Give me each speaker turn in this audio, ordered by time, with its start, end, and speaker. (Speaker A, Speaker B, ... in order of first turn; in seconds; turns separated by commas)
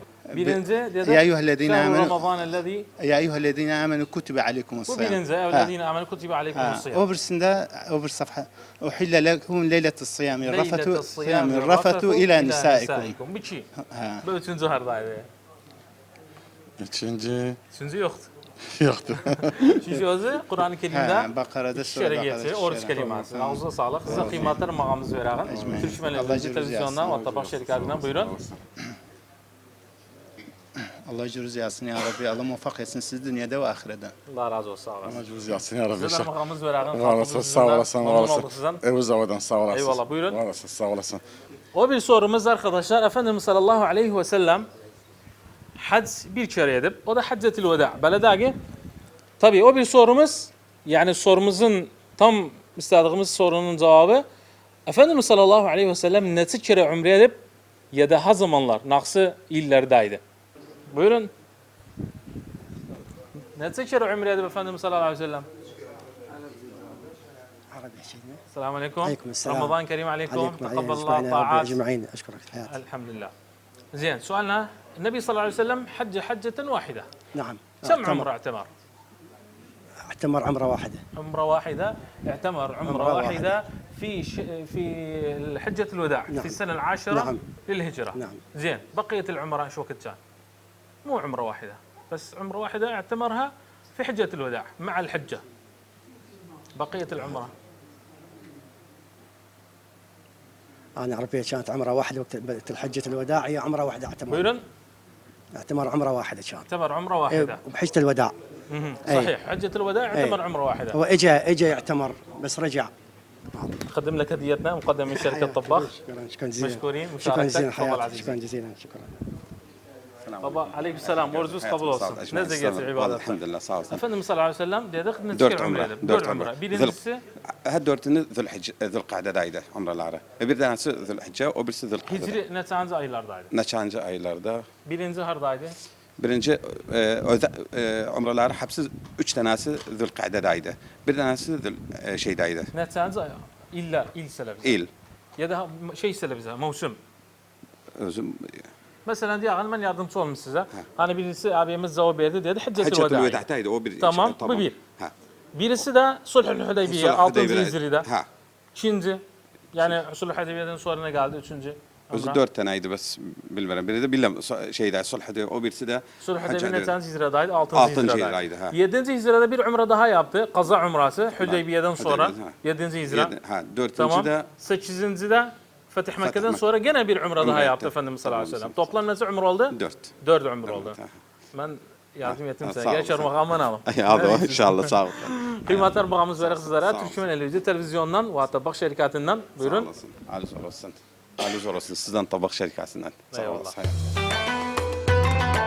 Speaker A: 0.3-2.2, Speaker B: 0.3-2.9, Speaker A: 3.0-5.7, Speaker B: 4.9-7.0, Speaker A: 6.5-13.1, Speaker B: 10.4-13.7, Speaker A: 13.9-14.2, Speaker B: 14.2-15.3, Speaker C: 16.8-17.6, Speaker B: 17.7-18.3, Speaker C: 18.7-19.9, Speaker B: 19.8-28.3, Speaker A: 20.9-24.6, Speaker C: 24.1-24.4, Speaker A: 25.4-27.3, Speaker C: 27.1-28.6, Speaker A: 31.1-34.1, Speaker B: 34.3-35.2, Speaker C: 35.0-36.3, Speaker B: 36.0-38.8, Speaker C: 36.9-41.2, Speaker B: 39.7-40.4, Speaker B: 41.7-44.7, Speaker B: 45.8-48.5, Speaker B: 49.4-54.2, Speaker B: 54.9-57.4, Speaker B: 57.9-60.2, Speaker B: 60.9-61.3, Speaker B: 63.5-65.5, Speaker D: 67.7-68.4, Speaker B: 68.5-71.8, Speaker D: 69.0-72.8, Speaker B: 72.7-73.3, Speaker B: 73.9-77.1, Speaker D: 77.3-78.3, Speaker B: 77.8-78.7, Speaker D: 80.0-81.0, Speaker B: 81.2-90.2, Speaker D: 82.8-83.5, Speaker D: 86.3-86.6, Speaker D: 87.1-87.4, Speaker D: 88.1-88.4, Speaker B: 91.0-95.4, Speaker B: 96.8-97.5, Speaker D: 101.0-104.5, Speaker B: 104.3-104.6, Speaker D: 105.6-106.7, Speaker B: 106.7-107.6, Speaker D: 107.3-108.3, Speaker B: 108.7-111.0, Speaker D: 109.0-109.3, Speaker D: 110.1-112.9, Speaker D: 113.5-113.8, Speaker B: 113.9-115.9, Speaker D: 115.1-119.1, Speaker B: 116.6-118.4, Speaker E: 120.3-120.6, Speaker B: 120.4-127.2, Speaker E: 121.2-124.0, Speaker E: 125.3-127.0, Speaker E: 127.6-132.4, Speaker B: 132.1-133.5, Speaker E: 133.5-134.6, Speaker B: 134.8-135.8, Speaker E: 136.2-142.7, Speaker B: 142.7-144.8, Speaker E: 144.6-144.9, Speaker B: 145.4-147.0, Speaker E: 148.0-148.7, Speaker B: 149.1-153.4, Speaker E: 152.8-155.1, Speaker B: 154.0-154.8, Speaker B: 155.5-158.1, Speaker E: 156.8-158.3, Speaker B: 158.7-159.2, Speaker B: 159.7-162.4, Speaker E: 162.1-167.0, Speaker B: 166.2-173.3, Speaker E: 167.7-168.7, Speaker E: 171.4-172.5, Speaker E: 173.1-174.5, Speaker B: 174.0-181.0, Speaker E: 176.2-176.6, Speaker E: 177.4-178.9, Speaker E: 179.7-180.1, Speaker E: 180.7-181.1, Speaker B: 181.5-189.9, Speaker E: 182.2-187.2, Speaker E: 189.6-194.0, Speaker B: 193.3-193.8